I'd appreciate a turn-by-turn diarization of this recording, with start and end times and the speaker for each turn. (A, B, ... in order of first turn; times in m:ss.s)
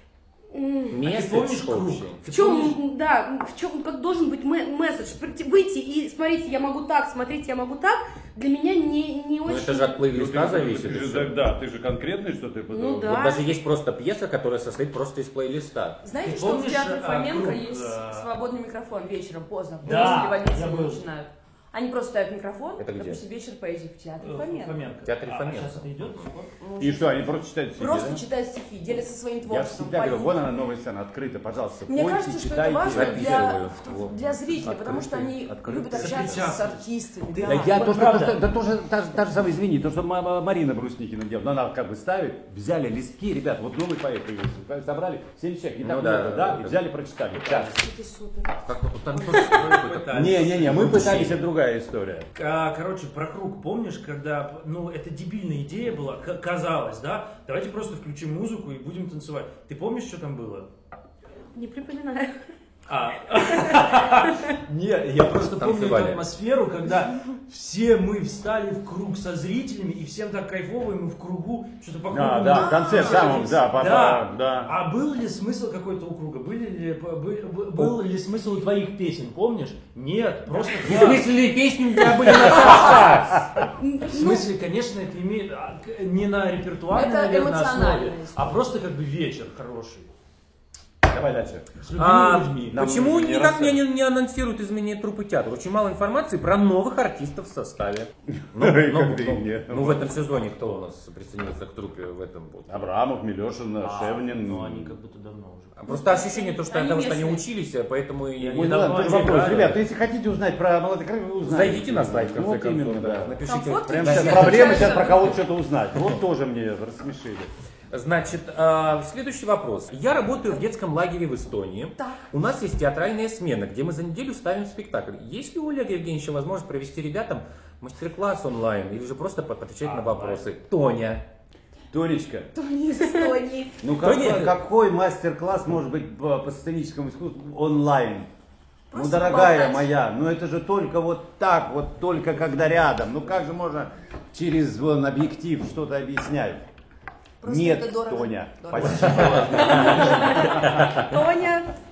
0:00.5-0:01.1 A
0:00.9-0:02.2 B
0:01.0-0:02.8 C
0:02.3-0:10.0 A
0:09.4-0:11.3 B
0:10.1-0:13.3 D
0:12.7-0:13.5 A
0:13.1-0:16.0 B
0:16.0-0:24.8 E
0:16.2-0:18.3 C
0:19.8-0:21.0 C
0:22.8-0:23.2 B
0:24.2-0:26.5 C
0:25.0-0:26.3 B
0:26.6-0:30.4 E
0:26.8-0:28.2 D
0:29.5-0:33.6 D
0:31.9-0:37.8 E
0:32.9-0:34.4 B
0:34.6-0:36.5 D
0:35.9-0:38.4 C
0:37.4-0:47.8 D
0:45.8-0:46.8 B
0:47.4-0:47.8 C
0:47.7-0:49.5 E
0:48.6-0:51.3 B
0:49.3-0:51.4 C
0:50.1-0:52.3 D
0:52.3-1:00.7 C
1:01.5-1:02.4 A
1:02.9-1:21.3 C
1:03.4-1:04.0 A
1:05.4-1:06.2 B
1:12.1-1:14.7 D
1:12.5-1:13.7 E
1:20.8-1:23.5 B
1:22.3-1:23.1 C
1:22.3-1:22.7 D
1:23.8-1:24.4 A
1:24.1-1:30.1 C
1:26.9-1:28.6 E
1:31.0-1:31.8 D
1:31.8-1:32.9 C
1:32.0-1:42.8 B
1:32.6-1:33.8 D
1:38.3-1:40.3 D
1:42.7-1:44.9 D
1:43.8-1:45.8 C
1:45.8-1:49.8 B
1:45.9-1:47.4 E
1:48.4-1:49.8 C
1:48.5-1:57.5 D
1:51.4-1:55.1 B
1:53.4-1:55.3 E
1:57.9-2:11.2 B
2:09.8-2:10.4 C
2:11.9-2:12.5 D
2:12.5-2:13.8 E
2:13.8-2:18.3 D
2:14.0-2:14.6 B
2:18.9-2:19.9 E
2:18.9-2:26.6 D
2:27.4-2:29.9 E
2:27.4-2:30.8 D
2:28.9-2:31.1 B
2:29.7-2:31.8 A